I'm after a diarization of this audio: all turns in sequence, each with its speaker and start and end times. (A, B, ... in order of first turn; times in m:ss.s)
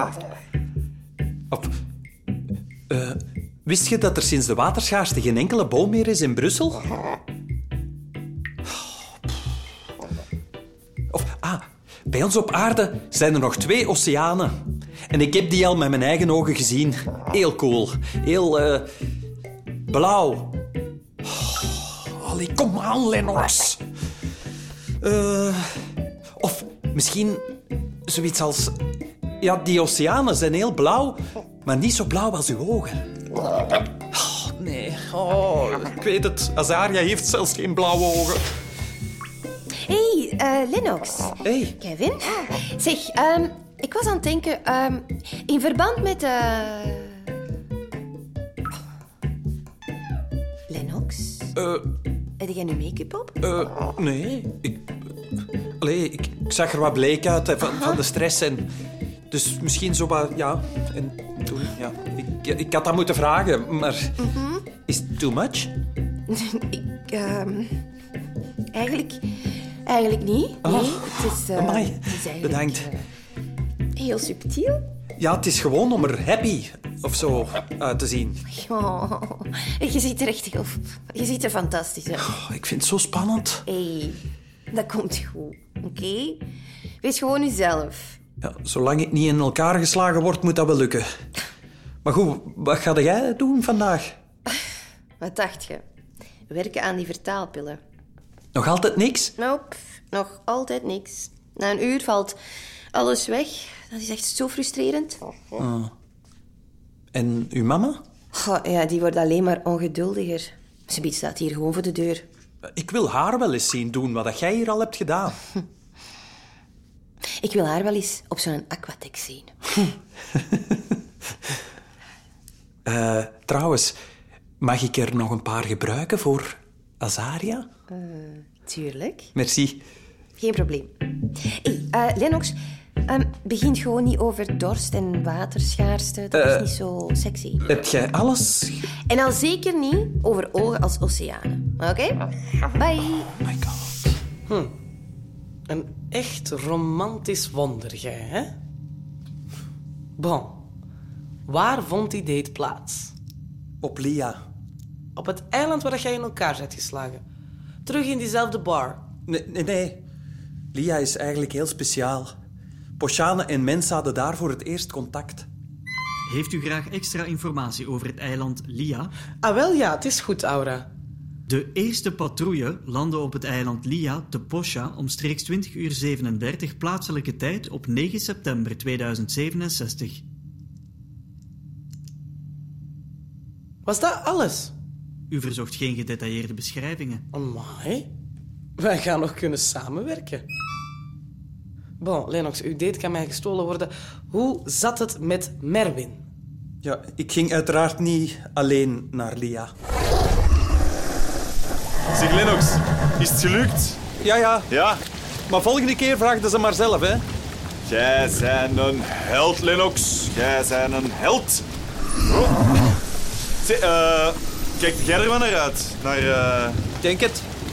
0:02.9-0:06.8 A
0:11.1-0:14.5 A
0:15.1-0:18.9 A
0:19.9-0:20.5 A
0:21.2-0:23.8 A
0:25.0-0:25.7 A
0:26.4-0:27.4 A
0:28.1-0:28.8 A
0:29.4-0:33.1 A
0:34.1-0:38.4 A
0:39.8-0:47.3 B
0:41.4-0:41.8 A
0:50.7-0:51.5 B
0:51.6-0:51.9 A
0:52.4-0:53.4 B
0:53.4-0:54.9 A
0:55.8-0:58.7 A
0:59.3-1:05.7 A
1:04.2-1:04.6 B
1:06.3-1:07.8 B
1:08.7-1:13.0 B
1:10.6-1:12.9 A
1:14.0-1:14.8 B
1:15.2-1:18.4 A
1:18.5-1:22.3 B
1:22.2-1:23.6 A
1:23.7-1:26.4 B
1:27.0-1:28.2 B
1:28.4-1:31.1 A
1:32.0-1:34.1 A
1:35.2-1:35.8 B
1:36.5-1:37.8 B
1:38.5-1:39.3 A
1:39.4-1:42.4 B
1:42.9-1:45.2 B
1:45.6-1:45.9 A
1:47.1-1:48.0 A
1:48.3-1:52.2 B
1:52.7-1:55.4 A
1:57.4-1:59.6 B
2:02.8-2:03.9 A
2:04.6-2:07.7 A
2:07.9-2:09.3 B
2:09.3-2:09.8 A
2:10.4-2:10.9 B
2:11.5-2:17.6 B
2:16.3-2:16.7 A
2:17.7-2:18.9 A
2:19.1-2:23.3 B
2:23.4-2:24.1 A
2:24.5-2:24.7 C
2:25.7-2:28.5 C
2:30.2-2:30.6 C
2:31.5-2:33.1 C
2:33.8-2:34.4 A
2:35.2-2:37.2 C
2:37.8-2:39.0 C
2:39.3-2:40.0 A
2:40.7-2:42.3 A
2:43.0-2:45.5 A
2:46.3-2:49.1 D
2:49.4-2:50.9 C
2:51.5-3:00.2 D
3:03.8-3:04.7 C
3:05.3-3:07.2 D
3:07.3-3:08.1 C
3:08.8-3:10.4 C
3:12.0-3:16.2 C
3:16.8-3:19.7 A
3:22.1-3:24.0 E
3:24.2-3:24.7 A
3:24.7-3:25.0 E
3:25.5-3:27.2 A
3:27.8-3:31.6 E
3:32.3-3:32.8 E
3:33.6-3:36.8 E
3:37.0-3:37.5 A